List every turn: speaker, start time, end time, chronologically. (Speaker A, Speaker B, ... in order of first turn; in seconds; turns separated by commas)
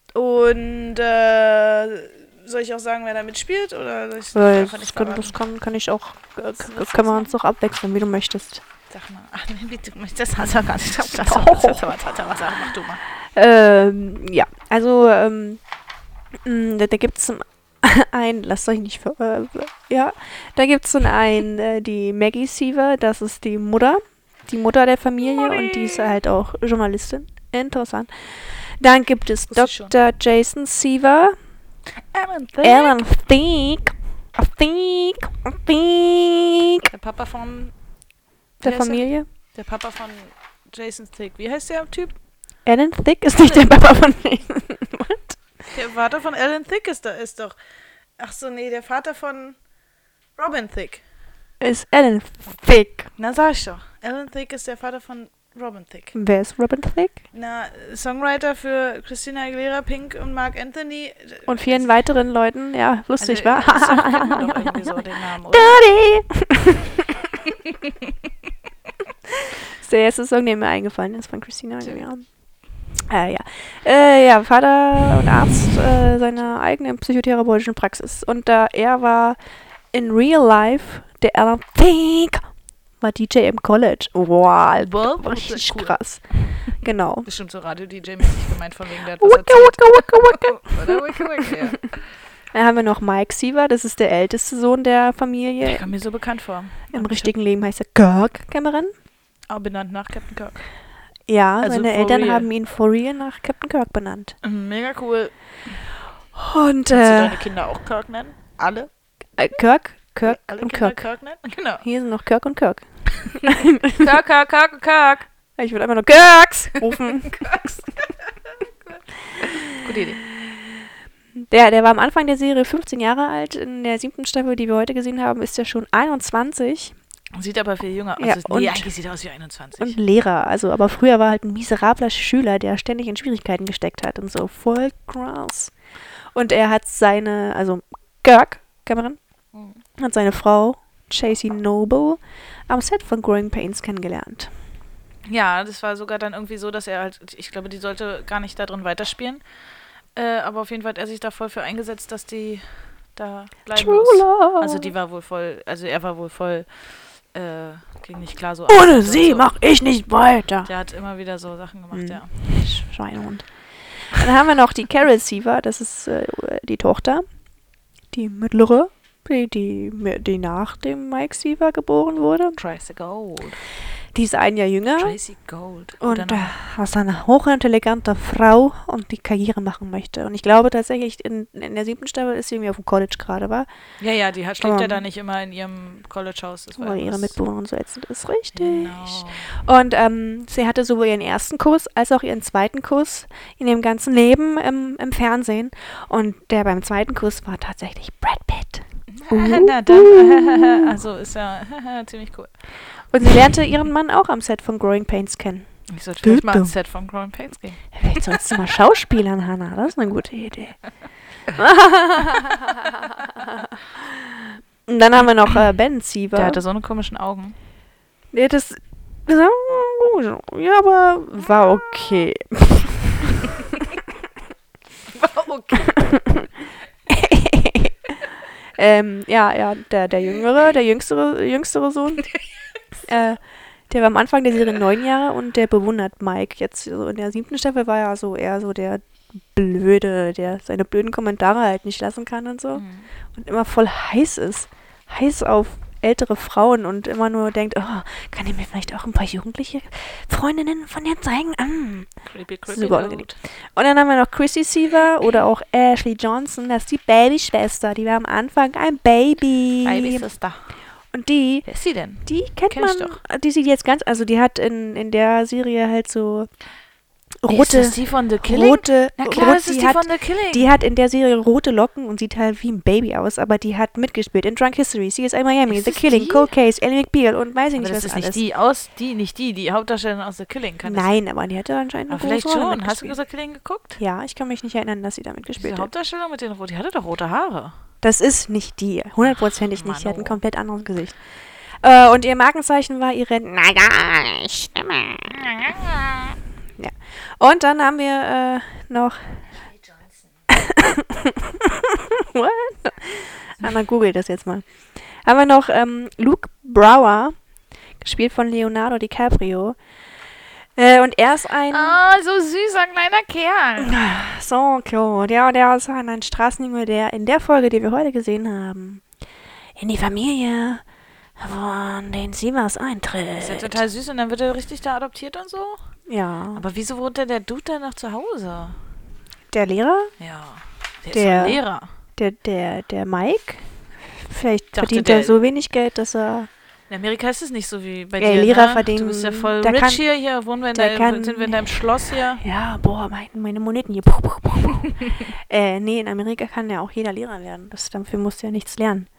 Speaker A: 0.1-5.4, Speaker B: 4.3-8.6, Speaker A: 6.6-7.4, Speaker A: 8.9-13.0, Speaker B: 10.8-11.9, Speaker B: 13.3-15.6, Speaker B: 16.4-31.4, Speaker A: 25.4-26.1, Speaker A: 29.5-29.9, Speaker A: 32.1-33.0, Speaker B: 32.6-36.9, Speaker A: 36.8-37.8, Speaker B: 38.6-39.3, Speaker A: 38.6-42.1, Speaker B: 42.6-45.4, Speaker A: 43.4-43.6, Speaker A: 45.7-47.5, Speaker A: 48.2-49.6, Speaker A: 50.4-51.0, Speaker B: 51.6-53.1, Speaker A: 53.2-56.2, Speaker B: 56.1-57.2, Speaker A: 57.3-61.9, Speaker B: 61.5-65.0, Speaker A: 63.2-65.8, Speaker B: 65.5-67.0, Speaker B: 69.8-72.3, Speaker B: 73.0-79.4, Speaker B: 79.9-82.5, Speaker B: 83.0-87.3, Speaker A: 84.8-86.0, Speaker A: 87.2-92.0, Speaker B: 89.2-91.0, Speaker B: 92.5-95.9, Speaker A: 95.6-97.3, Speaker B: 96.9-98.9, Speaker A: 99.5-100.6, Speaker B: 101.3-104.4, Speaker A: 101.6-102.5, Speaker A: 104.4-105.8, Speaker B: 106.3-107.4, Speaker A: 106.9-108.9, Speaker B: 109.4-111.0, Speaker A: 110.3-111.8, Speaker B: 111.8-114.1, Speaker A: 114.0-115.3, Speaker B: 115.6-117.7, Speaker A: 116.9-117.8, Speaker A: 119.6-120.2, Speaker B: 120.2-120.7, Speaker B: 121.4-127.0, Speaker A: 127.3-130.0, Speaker B: 128.2-128.9, Speaker B: 129.8-135.7, Speaker B: 136.3-139.2, Speaker A: 139.5-139.8, Speaker B: 140.0-144.5, Speaker A: 145.2-149.4, Speaker A: 150.2-159.5, Speaker B: 153.7-154.9, Speaker B: 158.7-160.7, Speaker A: 160.7-162.3, Speaker B: 161.9-167.3, Speaker B: 168.1-172.6, Speaker A: 172.6-173.6, Speaker B: 174.1-175.2, Speaker A: 175.0-176.5, Speaker B: 176.0-183.7, Speaker A: 184.0-187.4, Speaker B: 184.6-185.1, Speaker B: 186.8-200.9, Speaker A: 188.5-189.5, Speaker A: 199.1-202.6, Speaker B: 203.1-206.7, Speaker A: 205.9-207.8, Speaker B: 207.9-210.8, Speaker B: 211.6-216.6, Speaker A: 216.3-217.6, Speaker B: 218.3-223.4, Speaker A: 225.1-226.0, Speaker B: 225.9-226.5, Speaker B: 227.1-228.0, Speaker B: 228.8-232.3, Speaker B: 233.1-242.8, Speaker A: 242.8-243.1, Speaker B: 243.3-252.1, Speaker A: 252.3-253.3, Speaker B: 252.7-260.2, Speaker A: 259.8-260.6, Speaker B: 261.1-261.7, Speaker A: 261.7-263.2, Speaker B: 262.2-266.5, Speaker B: 267.4-278.4, Speaker A: 267.5-270.7, Speaker A: 275.7-276.5, Speaker A: 277.8-281.1, Speaker B: 280.9-283.2, Speaker A: 282.1-284.0, Speaker B: 284.0-285.9, Speaker A: 285.6-287.8, Speaker B: 288.0-291.2, Speaker A: 289.2-290.4, Speaker B: 291.8-295.4, Speaker B: 296.8-299.4, Speaker B: 300.5-304.7, Speaker B: 305.2-307.4, Speaker B: 308.0-309.8, Speaker B: 310.8-312.0, Speaker A: 311.7-314.0, Speaker B: 313.8-319.1, Speaker B: 319.8-320.8, Speaker B: 321.4-323.8, Speaker A: 323.4-325.9, Speaker B: 326.1-326.6, Speaker A: 326.6-328.8, Speaker B: 329.5-330.1, Speaker A: 330.2-331.9, Speaker B: 331.1-331.6, Speaker B: 332.2-336.5, Speaker A: 334.7-335.4, Speaker A: 336.9-342.4, Speaker B: 338.2-340.0, Speaker B: 340.7-341.7, Speaker B: 342.4-349.1